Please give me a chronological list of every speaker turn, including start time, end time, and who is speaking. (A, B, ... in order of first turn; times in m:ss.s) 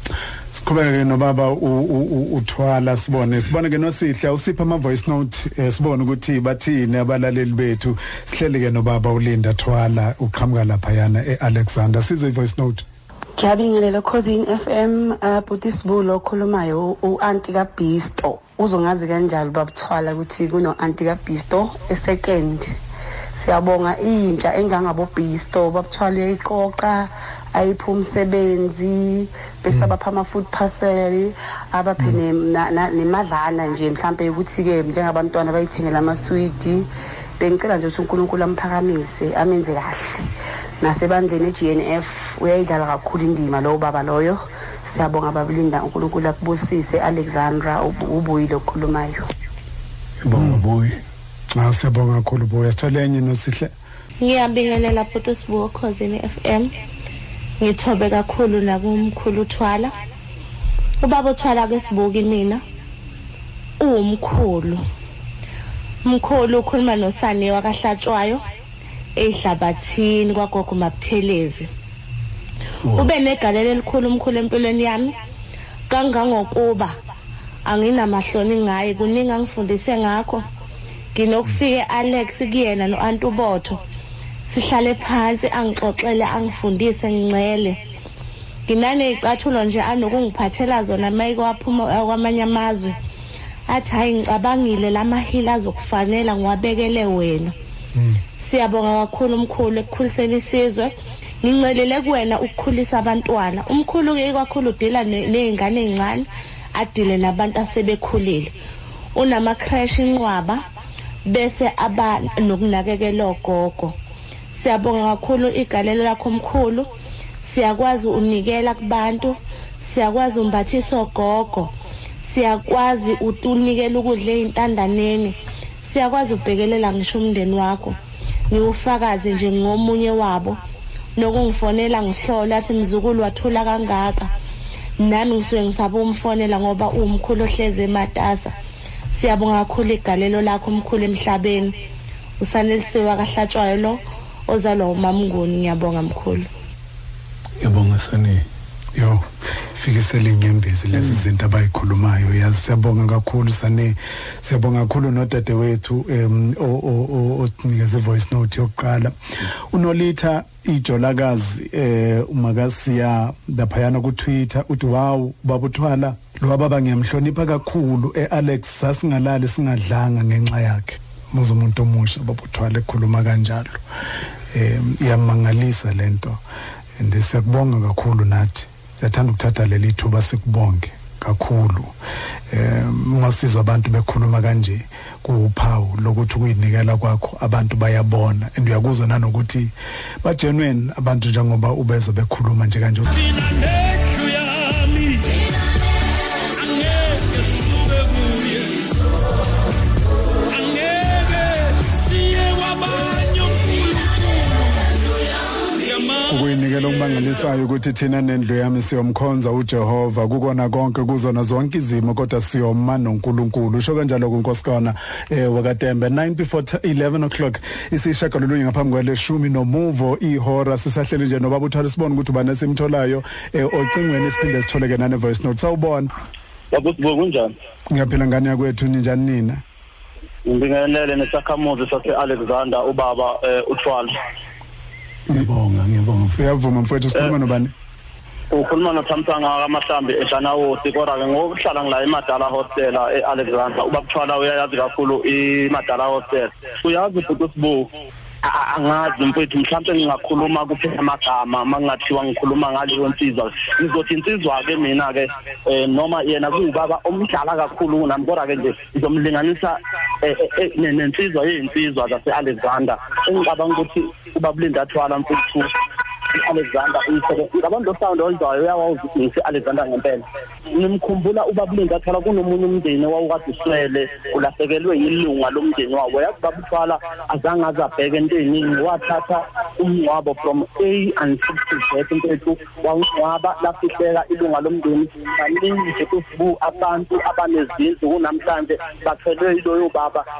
0:00.5-0:12.8 A
0:13.4-0:22.8 B
0:23.4-0:36.8 B
0:37.4-0:40.2 B
0:40.8-0:49.2 B
0:50.2-0:51.0 C
0:51.5-0:53.7 A
0:54.2-0:56.7 D
0:57.6-0:59.9 D
1:01.0-1:02.6 D
1:03.8-1:04.8 D
1:06.0-1:08.4 D
1:09.2-1:11.7 D
1:12.9-1:15.1 D
1:15.9-1:16.9 D
1:17.6-1:20.4 D
1:21.1-1:23.8 D
1:24.5-1:27.8 D
1:28.7-1:33.0 D
1:33.7-1:37.5 D
1:37.9-1:38.2 A
1:38.4-1:48.5 D
1:49.1-1:50.6 D
1:51.2-1:53.9 D
1:54.6-1:56.9 D
1:57.4-2:01.7 D
2:02.2-2:08.0 D
2:08.5-2:10.6 D
2:11.2-2:14.3 D
2:15.0-2:18.5 D
2:19.1-2:21.7 D
2:22.4-2:26.5 D
2:27.6-2:28.4 C
2:28.9-2:53.8 A
2:30.9-2:31.2 C
2:54.5-2:56.4 A
2:57.0-3:01.9 A
3:02.5-3:13.1 A
3:13.1-3:15.4 C
3:16.6-3:18.9 C
3:20.5-3:24.9 C
3:25.7-3:27.4 C
3:26.3-3:46.1 A
3:46.7-3:47.5 E
3:47.9-3:49.6 A
3:50.4-3:54.1 E
3:55.3-3:56.4 C
3:56.4-3:57.7 A
3:58.5-4:07.9 E
4:08.4-4:25.7 E
4:26.3-4:50.2 E